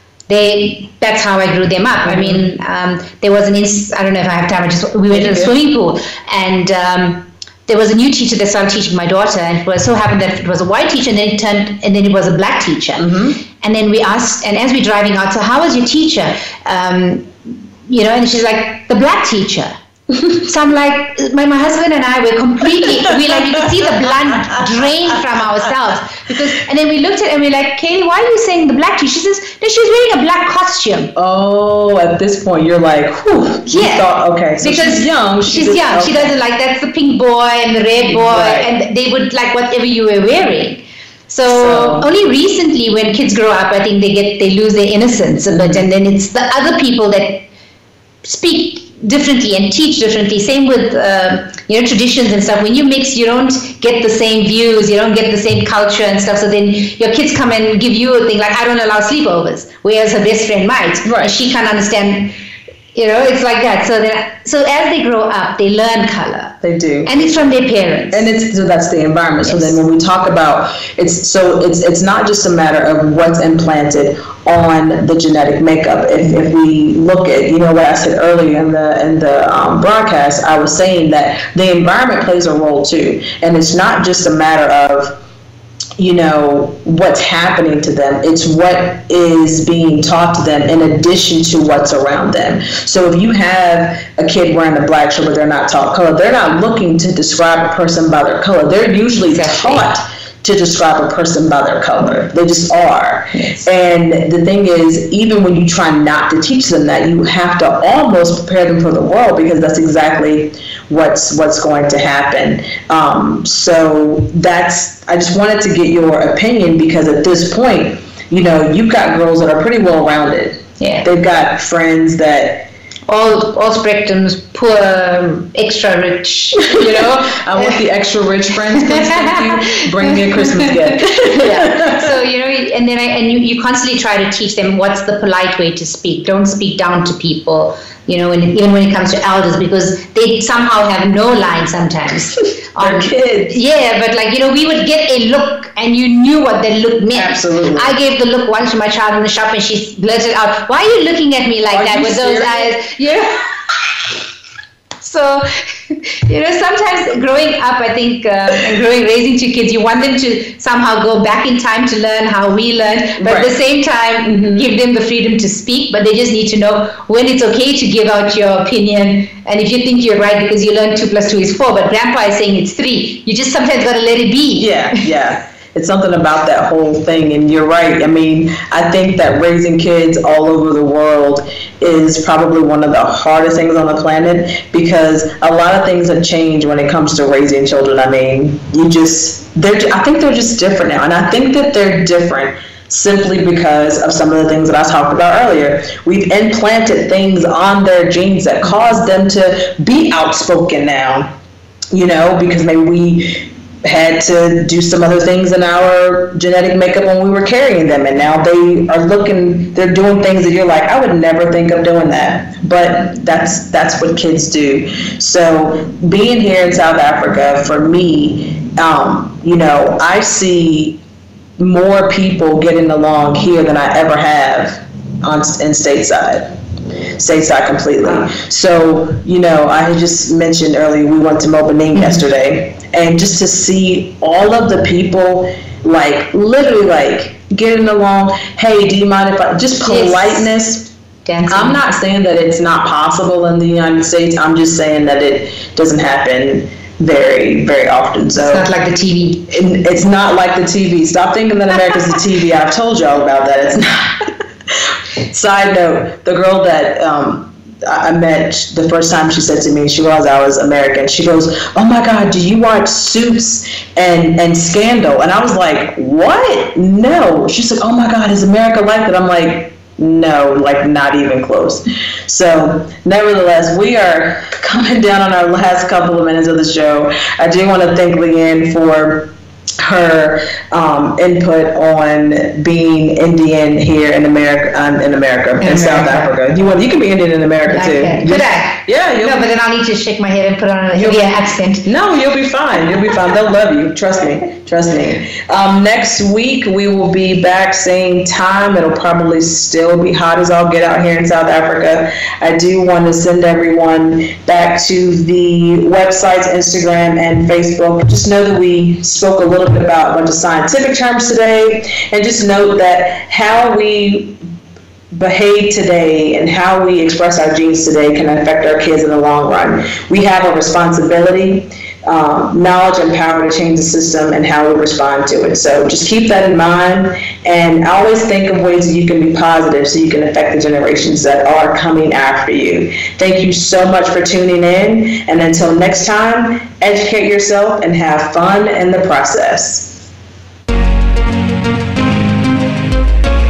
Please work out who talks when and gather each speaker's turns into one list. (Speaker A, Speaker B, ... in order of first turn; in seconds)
Speaker A: 0.3-19.7, 20.3-31.1, 33.7-47.5, 48.2-62.3, 63.0-68.3, 69.4-69.8, 99.3-100.0, 103.3-103.7, 120.8-121.1, 123.1-127.8, 128.7-153.3, 155.0-175.0, 231.9-232.2, 239.8-240.5, 241.2-241.8, 248.3-249.5, 285.6-286.3, 287.6-291.9
Speaker B: 2.0-2.5, 5.1-5.5, 13.0-13.4, 31.2-36.4, 38.1-38.7, 41.5-42.1, 45.5-45.9, 61.0-61.3, 66.6-67.6, 68.1-85.2, 86.0-122.7, 126.6-132.1, 142.8-143.6, 147.1-148.0, 151.7-153.4, 163.2-163.6, 164.2-164.7, 174.6-201.3, 201.9-221.0, 221.6-226.5, 227.2-240.9, 241.5-248.7, 249.5-254.4, 255.3-289.5, 291.0-314.4, 315.1-340.0